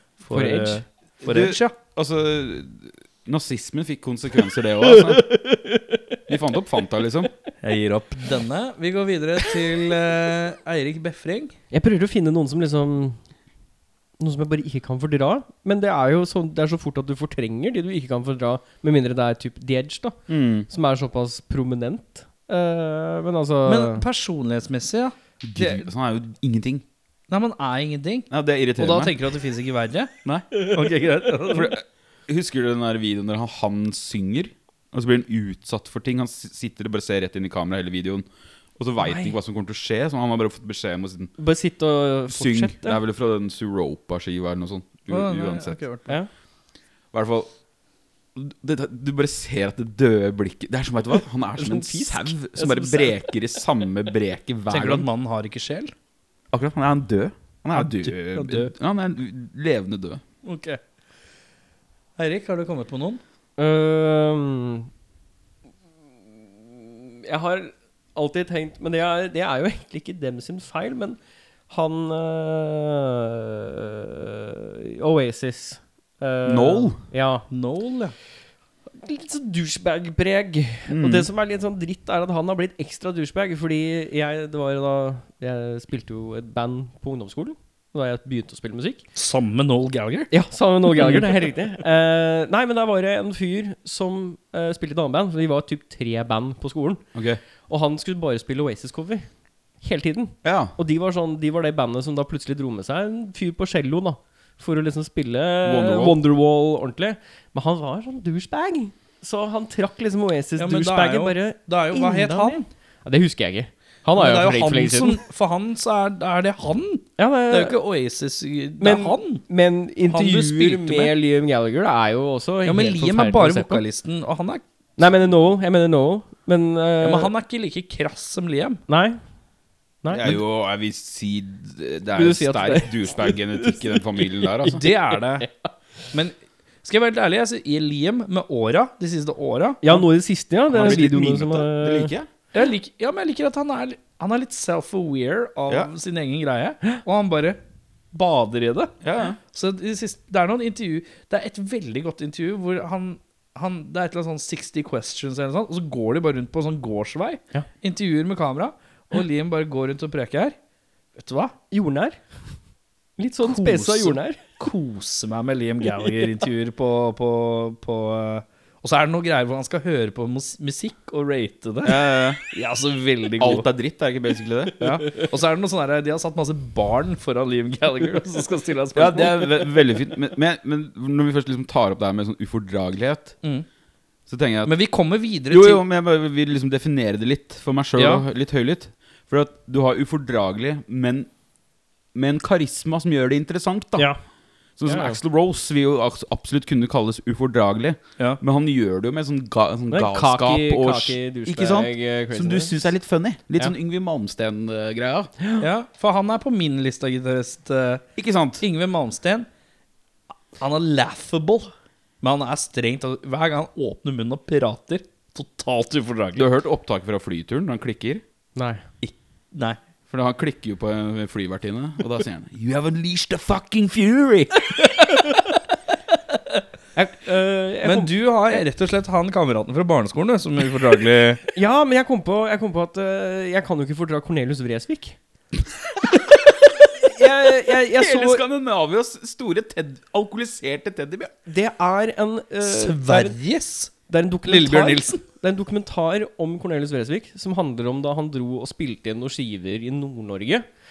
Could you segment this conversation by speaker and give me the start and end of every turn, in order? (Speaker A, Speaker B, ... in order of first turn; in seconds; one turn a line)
Speaker A: 0.2-1.8
Speaker B: 0.3-0.8
Speaker C: 1.2-5.3
Speaker B: 4.8-6.2
Speaker C: 6.3-7.3
Speaker A: 7.6-11.6
Speaker B: 11.7-13.2
Speaker B: 14.2-24.1
Speaker C: 20.3-20.7
Speaker A: 23.6-25.9
Speaker C: 25.4-26.8
Speaker A: 27.3-30.1
Speaker C: 28.3-29.2
Speaker A: 30.7-31.7
Speaker C: 31.5-38.3
Speaker C: 38.8-41.3
Speaker B: 39.0-39.4
Speaker B: 41.4-43.0
Speaker C: 42.3-45.8
Speaker A: 45.1-46.2
Speaker C: 47.1-47.5
Speaker C: 48.4-55.0
Speaker B: 51.6-53.3
Speaker A: 54.7-55.9
Speaker C: 56.5-60.2
Speaker A: 57.7-58.7
Speaker A: 60.4-60.8
Speaker A: 62.2-63.2
Speaker B: 63.6-64.9
Speaker B: 66.6-71.2
Speaker B: 71.7-77.5
Speaker C: 76.5-77.0
Speaker A: 77.5-78.2
Speaker B: 79.0-89.0
Speaker C: 80.9-81.3
Speaker A: 89.2-90.3
Speaker B: 90.3-97.0
Speaker A: 90.9-91.3
Speaker C: 97.1-97.4
Speaker B: 97.7-99.3
Speaker B: 99.8-115.2
Speaker C: 100.4-100.8
Speaker C: 105.7-106.2
Speaker A: 110.6-112.7
Speaker A: 114.2-119.4
Speaker B: 117.2-117.8
Speaker B: 118.8-123.8
Speaker A: 120.1-121.1
Speaker A: 122.7-124.6
Speaker B: 125.0-127.3
Speaker A: 127.0-128.8
Speaker B: 128.9-129.2
Speaker B: 130.0-130.4
Speaker C: 130.1-134.9
Speaker B: 132.2-134.8
Speaker A: 134.6-135.5
Speaker B: 135.4-135.7
Speaker A: 136.1-140.0
Speaker B: 139.8-142.1
Speaker C: 140.7-142.3
Speaker A: 142.5-147.6
Speaker A: 148.1-148.9
Speaker C: 149.0-149.4
Speaker A: 149.4-160.6
Speaker A: 161.2-161.6
Speaker B: 161.7-162.2
Speaker B: 163.2-164.4
Speaker A: 163.4-173.7
Speaker C: 171.8-172.4
Speaker C: 173.4-174.8
Speaker A: 174.8-179.5
Speaker C: 178.9-183.3
Speaker C: 184.3-184.8
Speaker A: 184.7-185.8
Speaker C: 185.5-191.3
Speaker A: 188.0-188.2
Speaker C: 192.1-194.1
Speaker C: 194.8-205.3
Speaker B: 194.9-195.2
Speaker B: 199.9-202.8
Speaker A: 205.6-208.0
Speaker C: 208.2-208.6
Speaker A: 208.6-209.5
Speaker A: 210.6-211.7
Speaker A: 212.2-216.5
Speaker C: 216.4-218.2
Speaker B: 218.6-218.8
Speaker A: 219.5-219.8
Speaker C: 220.1-225.2
Speaker B: 227.0-228.1
Speaker A: 227.8-231.4
Speaker B: 231.5-235.2
Speaker B: 236.7-238.4
Speaker C: 237.5-241.3
Speaker B: 241.5-243.4
Speaker A: 242.6-243.9
Speaker B: 244.1-250.7
Speaker A: 244.4-245.2